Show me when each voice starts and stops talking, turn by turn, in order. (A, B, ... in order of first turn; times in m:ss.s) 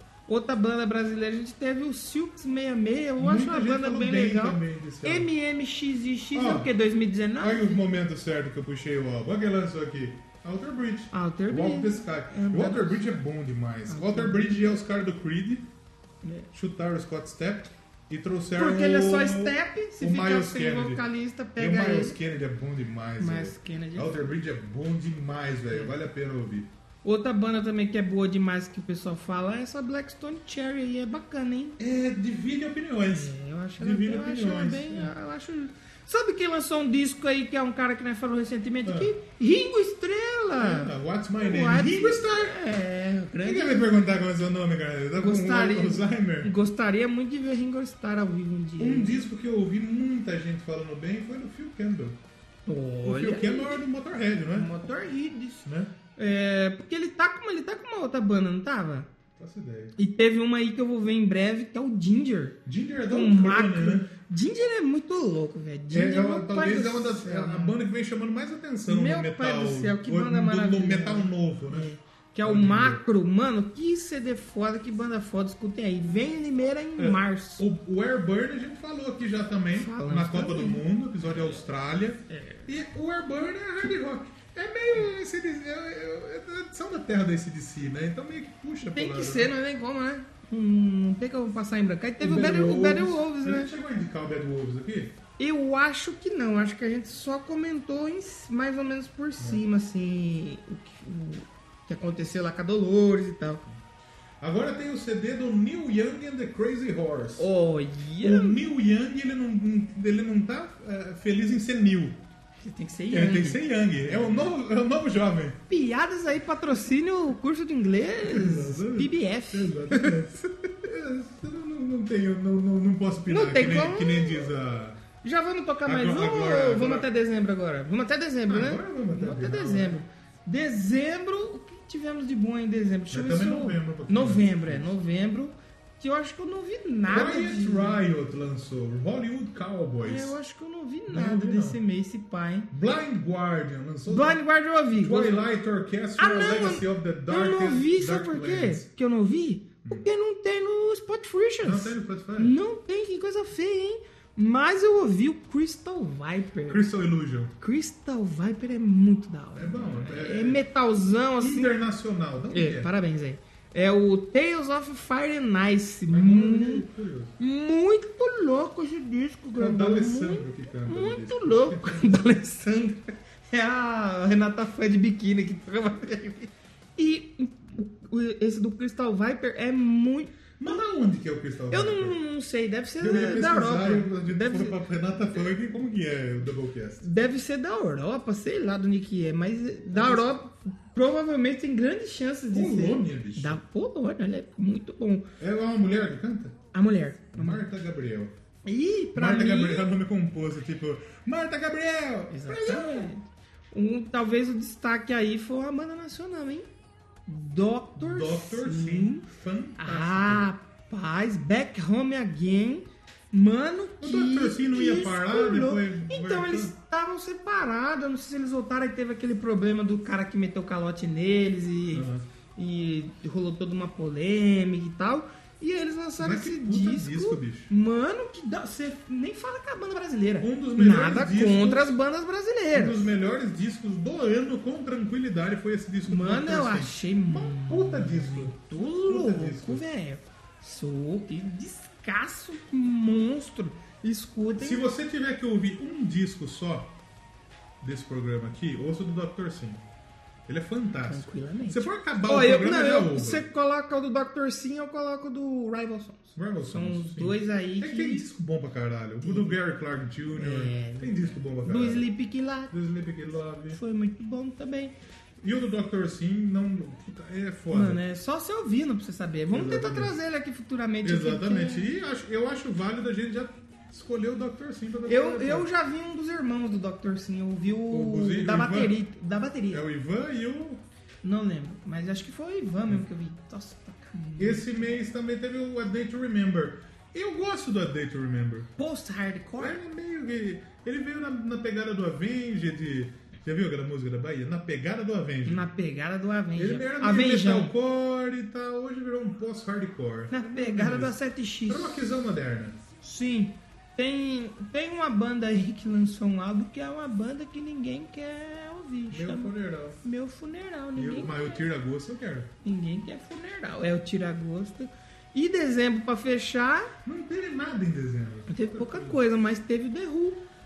0:00.3-0:07.8 A
0:03.2-0:05.3 B
0:06.3-0:06.7 B
0:07.4-0:15.7 B
0:11.1-0:13.2 A
0:13.9-0:14.7 A
0:16.2-0:16.5 A
0:16.5-0:21.0 B
0:18.6-0:22.2 A
0:21.6-0:26.7 B
0:23.2-0:24.3 A
0:27.0-0:31.8 A
0:31.8-0:35.1 B
0:33.1-0:43.9 A
0:38.8-0:39.1 B
0:40.6-0:42.6 B
0:43.4-0:46.5 B
0:45.2-0:49.2 A
0:48.8-0:52.2 B
0:52.6-0:53.8 A
0:53.0-0:54.7 B
0:54.5-0:55.6 A
0:55.6-0:55.9 B
0:56.2-0:59.1 A
0:59.4-1:00.0 B
1:00.0-1:02.6 A
1:02.6-1:04.1 B
1:03.1-1:07.8 A
1:05.9-1:11.9 B
1:08.9-1:17.6 A
1:12.4-1:13.0 B
1:17.0-1:29.5 B
1:19.7-1:21.6 A
1:22.3-1:22.7 A
1:28.8-1:33.7 A
1:32.2-1:35.2 B
1:35.4-1:43.6 A
1:44.4-1:47.5 B
1:47.4-1:48.6 A
1:48.2-1:52.2 B
1:52.6-1:54.5 A
1:53.1-1:55.6 B
1:55.7-2:00.4 A
1:58.2-2:05.0 B
2:03.2-2:04.5 A
2:05.2-2:18.0 A
2:05.8-2:07.1 B
2:08.5-2:10.0 B
2:13.1-2:15.0 B
2:17.1-2:20.3 B
2:20.0-2:22.7 A
2:21.1-2:21.8 B
2:22.7-2:24.4 B
2:24.1-2:25.5 A
2:24.9-2:28.9 B
2:26.2-2:36.8 A
2:31.6-2:32.5 B
2:36.7-2:37.5 B
2:37.6-2:41.7 A
2:39.5-2:40.6 B
2:41.4-2:42.9 B
2:42.5-2:46.8 A
2:46.1-2:47.4 B
2:47.4-3:00.5 A
2:49.5-2:52.2 B
3:00.6-3:02.2 B
3:01.7-3:04.8 A
3:03.0-3:07.1 B
3:07.0-3:15.3 A
3:09.9-3:10.3 B
3:12.5-3:13.6 B
3:15.4-3:16.6 B
3:16.7-3:17.6 A
3:17.3-3:18.3 B
3:18.6-3:19.9 A
3:19.1-3:23.1 B
3:22.3-3:26.7 A
3:27.3-3:29.2 A
3:28.0-3:30.5 B
3:29.8-3:53.1 A
3:34.0-3:36.7 B
3:41.9-3:42.2 B
3:46.2-3:47.7 B
3:50.4-3:52.0 B
3:52.7-3:59.8 B
3:56.0-4:04.8 A
4:04.6-4:07.0 B
4:07.8-4:09.8 B
4:10.4-4:13.4 B
4:11.0-4:18.3 A
4:16.4-4:22.1 B
4:19.2-4:19.6 A
4:20.3-4:22.7 A
4:22.7-4:23.8 B
4:23.7-4:24.9 A
4:25.4-4:28.0 B
4:27.7-4:31.9 A
4:29.5-4:30.2 B
4:31.0-4:35.7 B
4:35.0-4:39.8 A
4:37.9-4:39.0 B
4:39.7-4:40.8 B
4:41.2-4:44.9 A
4:44.4-4:48.7 B
4:48.8-4:49.8 A
4:49.6-4:55.7 B
4:55.4-4:57.7 A
4:56.5-5:02.8 B
5:00.3-5:02.0 A
5:03.0-5:11.5 A
5:09.1-5:10.0 B
5:11.0-5:12.5 B
5:12.6-5:16.9 A
5:17.0-5:19.2 B
5:18.5-5:20.4 A